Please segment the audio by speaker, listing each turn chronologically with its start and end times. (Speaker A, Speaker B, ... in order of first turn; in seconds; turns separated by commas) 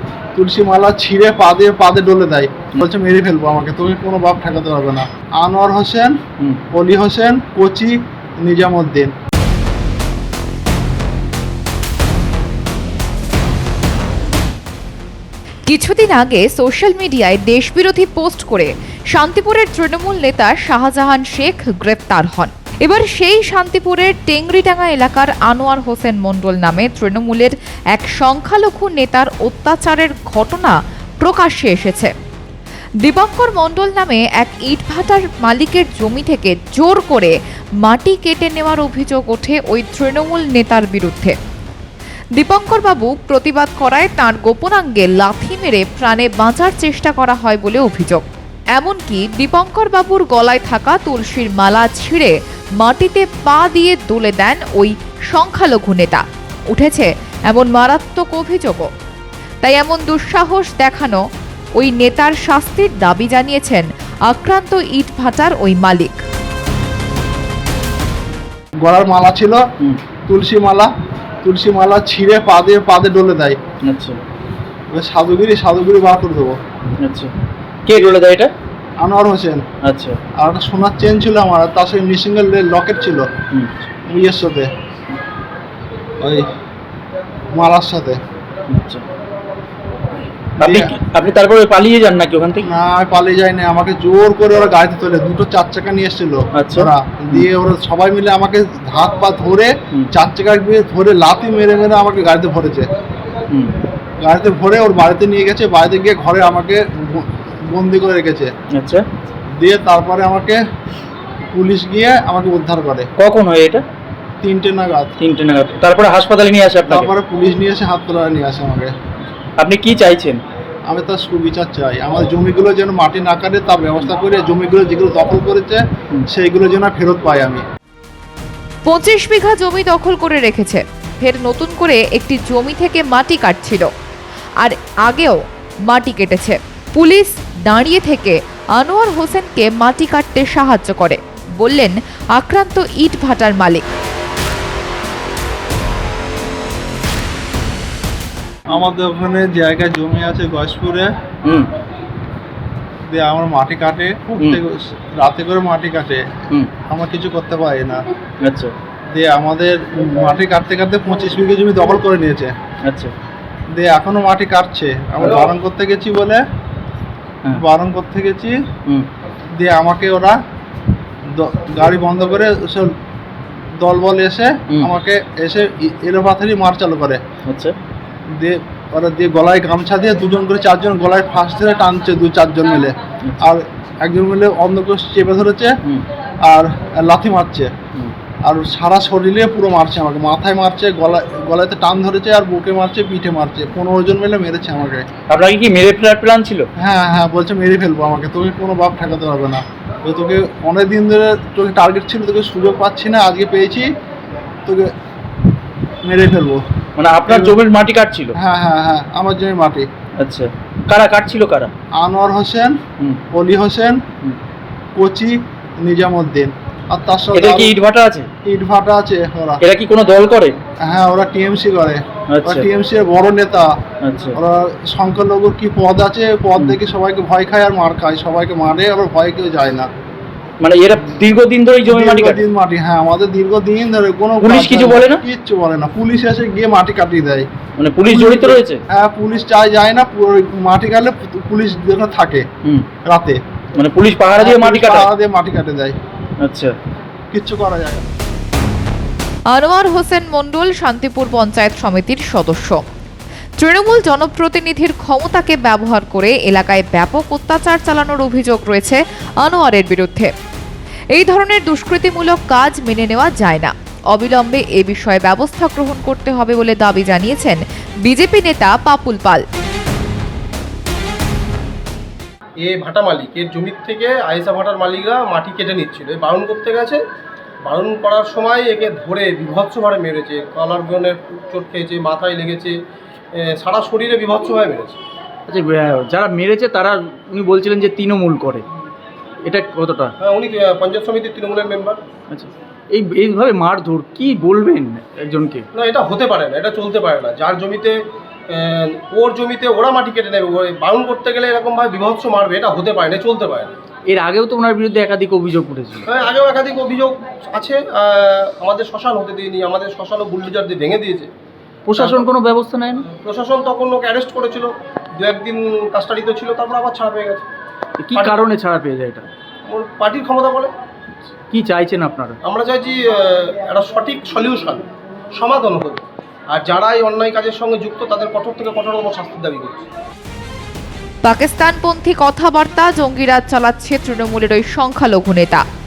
Speaker A: 0.3-6.2, Speaker A: 6.7-9.1, Speaker B: 15.7-32.1, Speaker B: 33.0-41.4, Speaker B: 42.4-48.2, Speaker B: 48.8-58.9, Speaker B: 59.6-61.2, Speaker B: 61.8-66.2, Speaker A: 68.8-69.6, Speaker A: 70.3-70.9, Speaker A: 71.4-73.6, Speaker C: 73.8-74.2, Speaker A: 74.9-76.6, Speaker C: 77.0-77.3, Speaker C: 77.8-78.5, Speaker A: 79.0-79.6, Speaker C: 79.8-80.2, Speaker A: 80.4-83.3, Speaker A: 84.1-84.7, Speaker A: 86.2-86.5, Speaker A: 87.5-88.2, Speaker C: 88.7-89.0, Speaker A: 90.6-90.9, Speaker C: 90.6-92.7, Speaker A: 92.6-102.9, Speaker C: 96.5-97.5, Speaker A: 104.2-108.5, Speaker C: 108.7-109.0, Speaker A: 109.6-110.6, Speaker A: 111.5-113.1, Speaker C: 113.2-113.8, Speaker A: 114.4-115.1, Speaker C: 115.2-117.1, Speaker A: 116.9-118.9, Speaker C: 119.6-120.4, Speaker A: 120.9-127.6, Speaker B: 128.8-133.9, Speaker B: 134.6-143.8, Speaker A: 148.7-151.1, Speaker A: 153.1-156.3, Speaker A: 156.9-158.0, Speaker C: 158.4-158.7, Speaker A: 159.1-162.5, Speaker C: 162.8-163.1, Speaker A: 163.8-166.4, Speaker A: 167.5-168.6, Speaker A: 169.6-170.3, Speaker A: 171.3-172.9, Speaker A: 173.8-177.2, Speaker C: 177.4-177.7, Speaker A: 178.3-185.7, Speaker A: 186.4-187.7, Speaker A: 188.4-195.1, Speaker C: 195.3-196.7, Speaker A: 196.8-203.9, Speaker A: 204.7-204.9, Speaker A: 206.0-206.6, Speaker C: 207.0-208.3, Speaker A: 207.3-207.6, Speaker A: 208.4-209.9, Speaker C: 210.2-211.7, Speaker A: 212.0-212.8, Speaker A: 213.3-214.0, Speaker A: 215.0-217.7, Speaker C: 217.3-218.3, Speaker A: 218.4-219.6, Speaker C: 219.6-220.6, Speaker A: 220.9-223.7, Speaker C: 222.3-222.6, Speaker C: 224.0-224.4, Speaker A: 224.3-229.9, Speaker C: 230.6-232.4, Speaker A: 231.8-237.5, Speaker C: 234.4-235.2, Speaker C: 237.8-238.8, Speaker A: 238.1-242.4, Speaker A: 243.1-243.4, Speaker C: 243.8-245.1, Speaker A: 244.4-245.9, Speaker C: 246.4-246.7, Speaker A: 247.3-248.0, Speaker B: 249.5-252.8, Speaker B: 253.6-260.3, Speaker B: 261.1-269.4, Speaker D: 272.6-277.0, Speaker D: 277.6-282.8, Speaker D: 283.4-285.0, Speaker E: 285.5-288.6, Speaker E: 289.4-290.1, Speaker D: 290.2-292.0, Speaker E: 292.3-295.6, Speaker D: 295.7-298.0, Speaker D: 298.5-303.7, Speaker E: 304.1-306.1, Speaker D: 306.1-311.3, Speaker E: 311.9-313.0, Speaker D: 311.9-312.3, Speaker D: 313.0-317.5, Speaker E: 318.0-319.3, Speaker D: 319.7-320.7, Speaker E: 321.5-322.4, Speaker D: 322.4-324.8, Speaker D: 325.3-329.8, Speaker B: 331.2-335.6